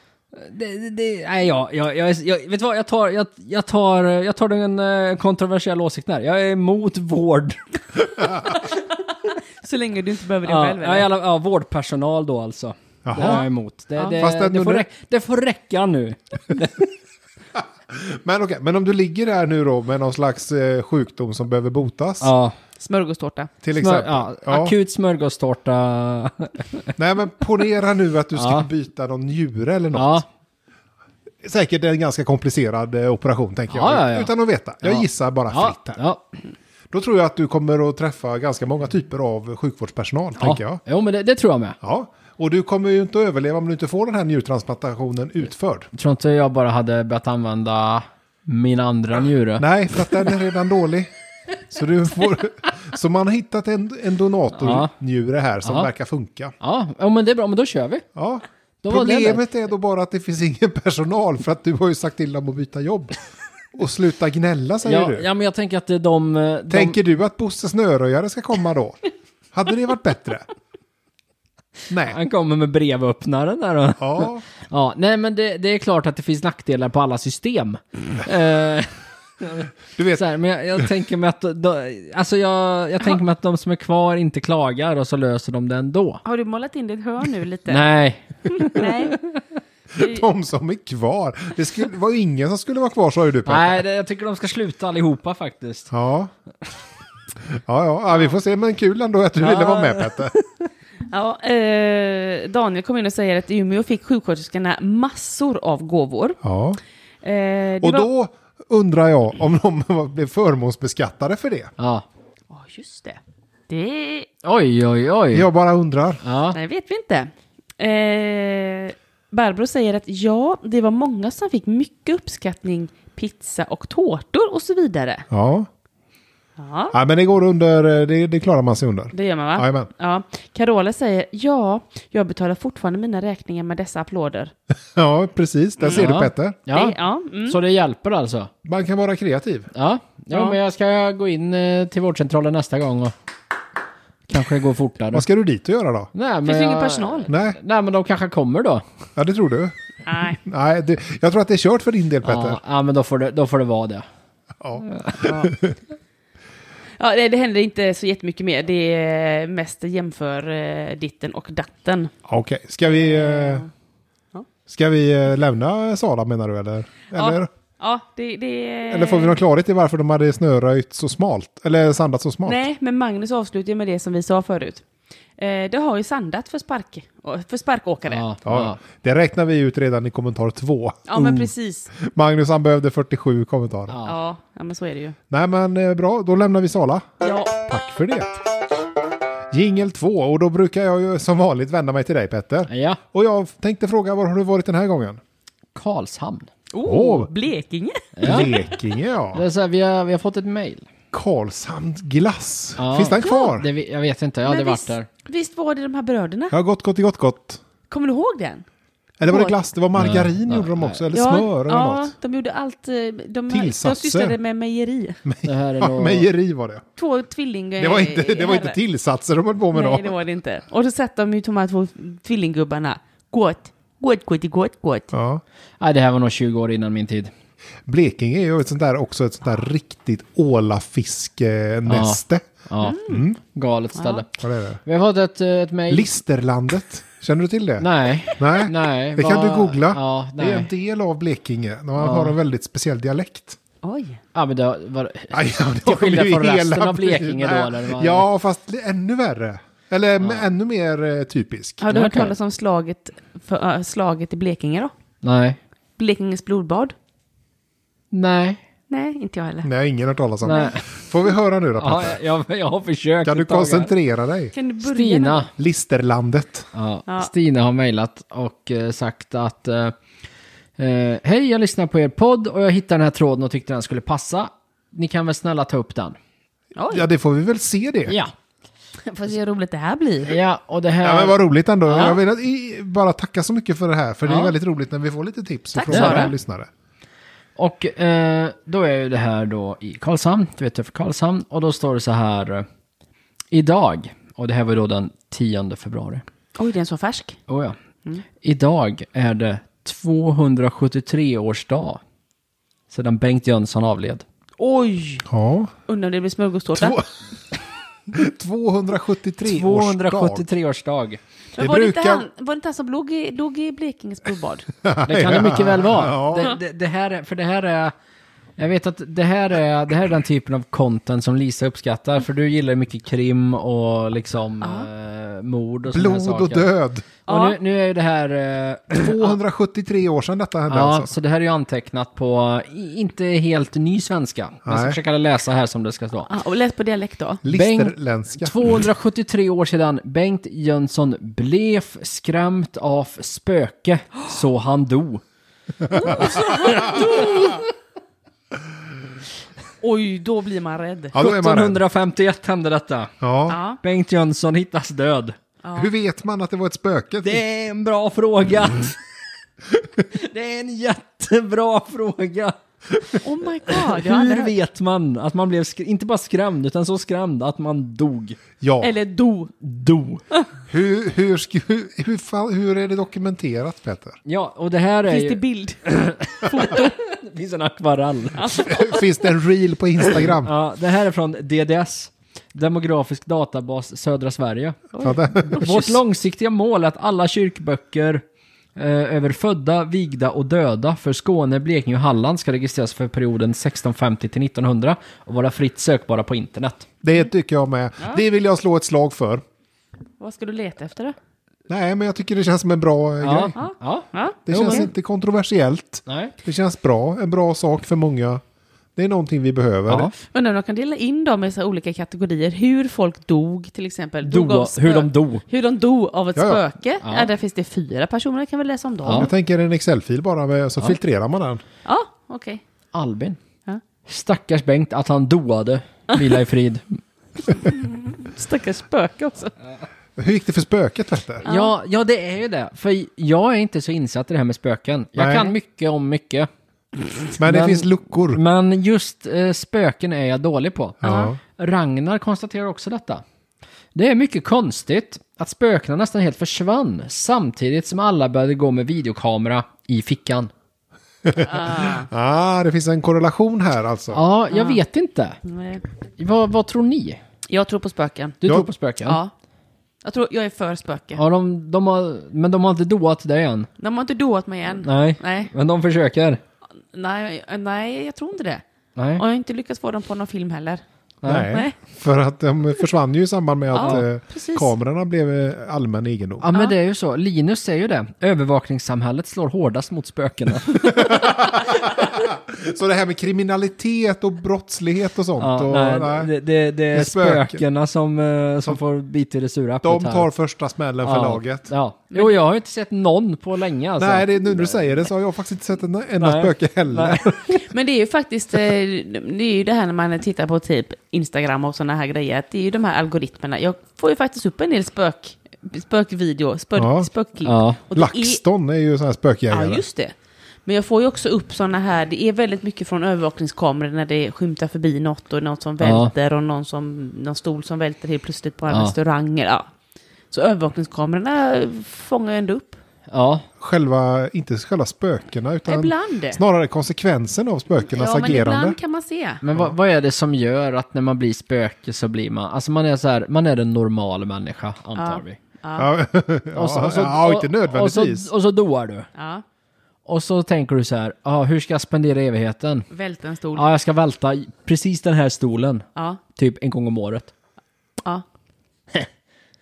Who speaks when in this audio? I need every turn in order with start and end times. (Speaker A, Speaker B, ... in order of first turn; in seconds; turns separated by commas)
Speaker A: 0.3-7.6, Speaker B: 9.6-11.1, Speaker A: 10.4-16.9, Speaker C: 13.1-13.4, Speaker C: 14.2-14.9, Speaker C: 17.9-22.3, Speaker A: 22.2-22.6, Speaker B: 22.8-23.5, Speaker C: 23.6-24.8, Speaker A: 23.8-26.9, Speaker C: 27.0-30.2, Speaker A: 28.4-28.7, Speaker A: 29.9-30.3, Speaker C: 31.4-36.0, Speaker A: 33.7-34.3, Speaker A: 34.8-36.3, Speaker C: 36.9-40.8, Speaker A: 40.4-41.8, Speaker C: 41.8-45.9, Speaker A: 45.9-49.7, Speaker C: 49.6-51.1, Speaker C: 51.7-56.5, Speaker A: 54.6-54.9, Speaker A: 55.6-55.9, Speaker A: 56.6-58.0, Speaker C: 58.1-63.2, Speaker A: 58.8-59.5, Speaker C: 63.7-65.3, Speaker A: 64.8-67.0, Speaker C: 66.7-69.0, Speaker C: 69.5-70.5, Speaker C: 71.9-72.2, Speaker A: 72.0-86.2, Speaker C: 74.0-74.5, Speaker C: 80.0-80.3, Speaker B: 86.2-87.9, Speaker A: 87.7-89.4, Speaker B: 88.5-89.2, Speaker C: 89.9-93.8, Speaker B: 90.0-90.2, Speaker A: 93.5-95.9, Speaker C: 95.9-96.3, Speaker C: 97.4-100.3, Speaker A: 99.4-100.4, Speaker B: 101.1-106.4, Speaker C: 106.4-106.8, Speaker B: 107.2-108.1, Speaker C: 107.8-111.7, Speaker A: 111.8-112.0, Speaker B: 112.5-114.3, Speaker A: 114.4-115.5, Speaker C: 115.3-116.2, Speaker A: 116.2-116.6, Speaker B: 116.5-125.2, Speaker C: 125.3-125.7, Speaker B: 126.6-127.0, Speaker C: 126.9-129.9, Speaker B: 129.1-134.5, Speaker C: 134.9-136.6, Speaker B: 135.8-136.1, Speaker A: 135.9-137.0, Speaker B: 136.7-137.6, Speaker A: 137.5-138.5, Speaker C: 138.7-139.7, Speaker A: 139.7-143.1, Speaker B: 140.3-140.6, Speaker A: 144.3-145.3, Speaker C: 145.1-146.1, Speaker A: 146.1-148.8, Speaker B: 146.4-147.3, Speaker C: 147.3-147.6, Speaker C: 149.2-149.8, Speaker B: 150.1-150.4, Speaker C: 150.4-152.6, Speaker A: 152.2-154.1, Speaker C: 154.6-155.7, Speaker A: 154.8-155.3, Speaker B: 155.2-155.5, Speaker B: 157.0-162.1, Speaker C: 162.3-163.7, Speaker B: 162.9-163.7, Speaker C: 164.7-167.5, Speaker B: 167.1-169.3, Speaker C: 168.9-172.6, Speaker B: 172.5-174.8, Speaker B: 175.4-178.2, Speaker A: 178.1-178.8, Speaker C: 178.4-183.9, Speaker B: 181.1-181.9, Speaker A: 183.9-184.2, Speaker B: 184.1-185.2, Speaker C: 185.3-187.1, Speaker B: 187.2-187.6, Speaker C: 187.7-188.3, Speaker C: 189.5-195.2, Speaker A: 192.7-193.0, Speaker A: 195.8-196.5, Speaker B: 196.7-198.7, Speaker C: 196.8-197.3, Speaker A: 198.2-198.5, Speaker C: 198.2-199.4, Speaker A: 199.3-200.9, Speaker C: 201.1-203.7, Speaker A: 202.8-205.1, Speaker B: 203.1-203.5, Speaker B: 204.4-206.6, Speaker C: 206.5-207.6, Speaker B: 207.9-208.7, Speaker C: 209.2-212.1, Speaker B: 209.3-209.6, Speaker A: 209.9-211.0, Speaker B: 211.1-215.2, Speaker C: 213.5-214.4, Speaker C: 215.2-216.8, Speaker A: 215.4-216.3, Speaker B: 217.0-218.8, Speaker C: 217.8-220.1, Speaker B: 219.7-225.1, Speaker C: 225.1-225.4, Speaker A: 225.8-227.3, Speaker C: 227.9-232.5, Speaker A: 231.9-234.3, Speaker B: 232.8-233.2, Speaker C: 233.1-233.4, Speaker C: 234.4-234.8, Speaker A: 234.8-236.1, Speaker C: 235.9-243.6, Speaker A: 237.8-240.7, Speaker A: 242.0-242.3, Speaker B: 243.8-244.2, Speaker A: 244.3-248.3, Speaker C: 245.3-251.8, Speaker B: 251.8-254.9, Speaker A: 251.9-252.3, Speaker A: 255.2-255.6, Speaker B: 256.0-256.9, Speaker A: 258.1-258.6, Speaker B: 258.9-259.7, Speaker C: 259.6-262.2, Speaker A: 260.4-260.8, Speaker A: 261.8-263.9, Speaker C: 263.2-264.5, Speaker B: 264.5-265.5, Speaker A: 264.8-265.5, Speaker C: 265.6-266.7, Speaker A: 266.7-269.9, Speaker A: 270.8-276.2, Speaker B: 276.8-277.1, Speaker C: 276.9-278.1, Speaker A: 278.1-278.3, Speaker B: 279.1-280.4, Speaker A: 280.3-281.4, Speaker C: 281.0-286.7, Speaker A: 284.3-284.5, Speaker B: 285.8-286.3, Speaker A: 285.9-286.3, Speaker A: 287.6-292.7, Speaker A: 293.5-296.2, Speaker B: 296.6-297.4, Speaker A: 297.5-297.8, Speaker A: 298.4-302.0, Speaker A: 302.9-304.2, Speaker B: 304.6-305.3, Speaker C: 305.3-305.7, Speaker B: 305.9-307.0, Speaker C: 306.8-307.0, Speaker C: 308.1-310.4, Speaker A: 309.4-311.2, Speaker B: 311.6-314.7, Speaker C: 311.6-312.3, Speaker C: 314.8-316.5, Speaker A: 315.1-317.9, Speaker A: 318.6-326.7, Speaker B: 324.6-324.9, Speaker C: 325.9-327.1, Speaker A: 327.3-329.4, Speaker B: 327.3-327.6, Speaker C: 328.9-331.1, Speaker A: 330.7-336.3, Speaker C: 334.6-335.0, Speaker B: 336.3-337.4, Speaker C: 337.4-338.8, Speaker A: 337.5-345.2, Speaker A: 345.9-347.6, Speaker C: 345.9-346.9, Speaker B: 345.9-347.6, Speaker B: 349.8-351.1, Speaker C: 351.1-351.8, Speaker A: 351.2-353.1, Speaker C: 353.2-353.6, Speaker B: 353.5-353.8, Speaker A: 353.7-355.4, Speaker B: 355.6-355.9, Speaker C: 355.8-357.4, Speaker A: 357.2-359.0, Speaker A: 360.0-368.4, Speaker B: 363.2-364.5, Speaker C: 368.6-368.9, Speaker B: 368.8-369.5, Speaker A: 369.6-370.2, Speaker C: 370.7-374.2, Speaker A: 374.2-378.9, Speaker B: 375.1-377.0, Speaker B: 378.4-379.0, Speaker C: 378.7-380.5, Speaker A: 380.2-384.9, Speaker B: 384.9-386.0, Speaker C: 385.0-385.9, Speaker A: 385.5-388.2, Speaker A: 388.8-396.9, Speaker C: 397.0-399.4, Speaker B: 400.2-401.2, Speaker C: 401.7-403.6, Speaker A: 403.2-404.9, Speaker B: 403.6-404.9, Speaker C: 404.5-408.4, Speaker A: 406.1-406.4, Speaker C: 409.0-410.1, Speaker A: 409.9-410.2, Speaker B: 410.3-419.3, Speaker A: 414.2-415.4, Speaker C: 416.4-416.6, Speaker A: 417.0-417.3, Speaker A: 419.0-419.3, Speaker C: 419.1-421.6, Speaker B: 421.9-422.6, Speaker A: 422.9-423.4, Speaker A: 424.1-427.0, Speaker B: 426.1-426.4, Speaker B: 427.5-429.5, Speaker C: 430.2-431.4, Speaker B: 431.4-431.7, Speaker A: 431.4-436.5, Speaker C: 435.2-435.5, Speaker A: 437.3-443.2, Speaker C: 437.4-438.4, Speaker C: 441.0-441.4, Speaker B: 441.0-441.3, Speaker A: 443.9-450.5, Speaker C: 451.2-454.2, Speaker B: 451.4-452.1, Speaker A: 454.1-455.4, Speaker B: 454.5-454.8, Speaker B: 455.4-455.8, Speaker A: 456.2-457.2, Speaker B: 457.5-458.4, Speaker A: 458.4-459.2, Speaker B: 459.1-459.3, Speaker B: 460.0-461.2, Speaker A: 461.2-463.7, Speaker B: 463.8-465.5, Speaker A: 464.8-466.4, Speaker B: 466.9-468.6, Speaker A: 469.0-469.2, Speaker B: 469.2-470.8, Speaker A: 471.2-471.5, Speaker C: 471.2-476.5, Speaker B: 471.5-471.7, Speaker B: 473.7-474.7, Speaker A: 473.8-474.1, Speaker A: 476.4-481.4, Speaker C: 480.8-486.3, Speaker A: 485.4-490.3, Speaker C: 486.9-487.6, Speaker C: 489.8-491.7, Speaker A: 491.0-494.8, Speaker C: 494.0-497.6, Speaker A: 496.2-497.6, Speaker B: 497.6-508.4, Speaker C: 506.8-507.1, Speaker A: 507.4-507.8, Speaker C: 507.9-509.8, Speaker B: 509.5-510.1, Speaker B: 510.6-519.7, Speaker A: 515.8-516.1, Speaker A: 518.7-519.0, Speaker B: 520.3-522.8, Speaker A: 523.1-523.5, Speaker C: 523.6-528.8, Speaker B: 525.7-526.4, Speaker B: 527.9-529.4, Speaker A: 529.4-535.4, Speaker B: 535.0-535.9, Speaker C: 535.8-538.3, Speaker A: 536.5-539.1, Speaker B: 539.1-539.4, Speaker A: 540.1-542.9, Speaker B: 542.9-543.7, Speaker A: 543.5-547.3